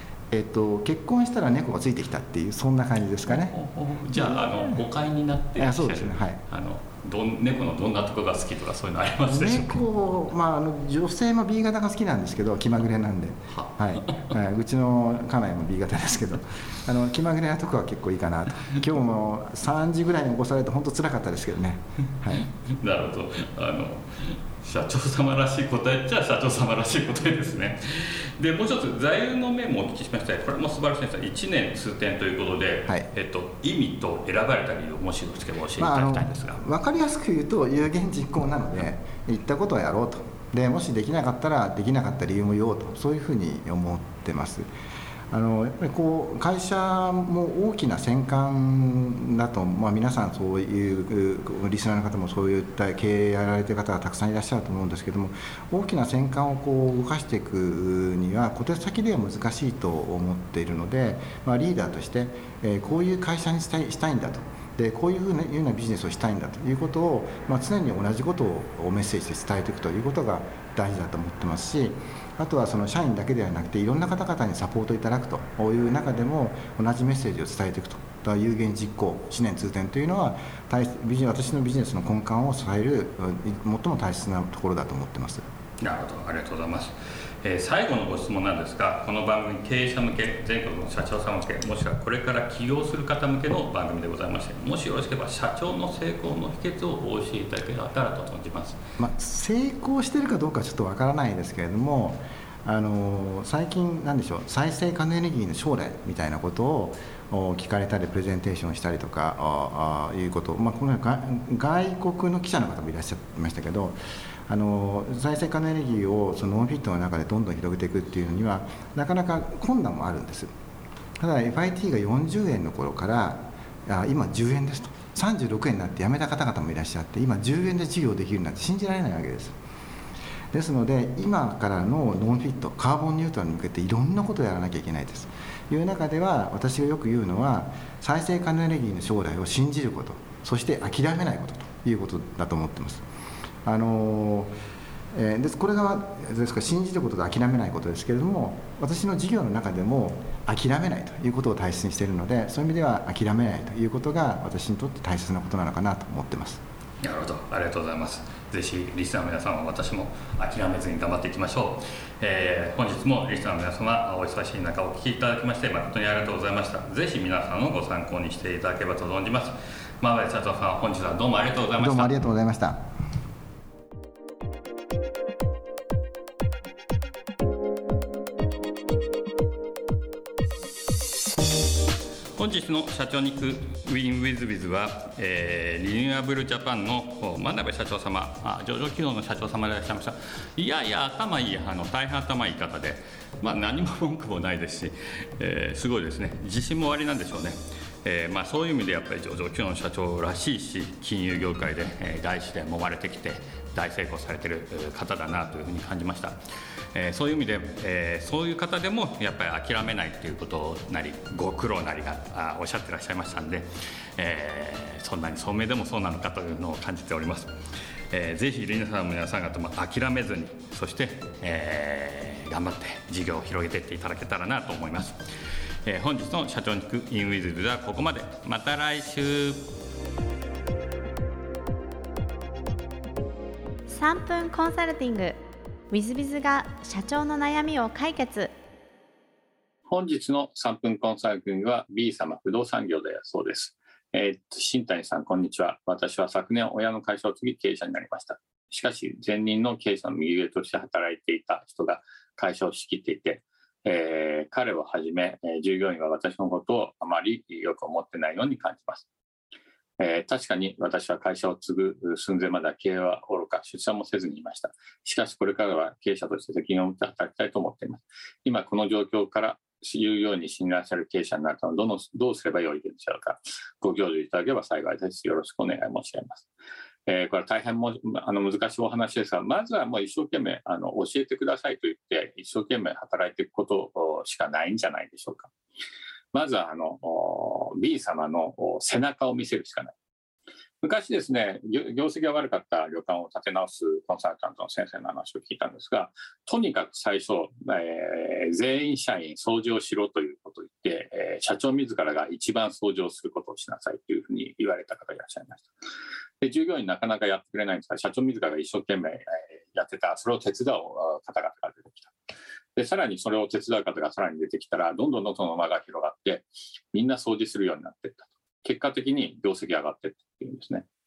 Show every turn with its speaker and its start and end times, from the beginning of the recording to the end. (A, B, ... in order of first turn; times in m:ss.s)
0:00.3-0:03.6 A
0:03.3-0:09.8 B
0:04.1-0:04.5 A
0:05.6-0:06.4 A
0:09.3-0:22.4 A
0:13.6-0:14.3 B
0:22.3-0:36.6 B
0:35.8-0:44.7 A
0:45.3-1:25.4 A
1:25.8-1:38.8 B
1:39.0-1:54.0 A
1:54.5-2:00.5 A
2:01.2-2:09.6 A
2:10.5-2:23.0 A
2:23.6-2:24.5 A
2:25.1-2:36.6 A
2:37.0-2:52.2 B
2:51.8-2:52.9 A
3:02.4-3:26.4 B
3:26.9-3:37.5 B
3:38.1-3:45.2 B
3:45.8-3:49.6 B
3:53.9-3:55.4 C
3:55.9-3:58.5 C
3:59.9-4:19.1 B
4:20.0-4:36.5 B
4:37.1-4:45.5 B
4:46.3-4:50.0 B
4:50.8-5:05.7 B
5:06.4-5:12.1 B
5:12.8-5:20.9 B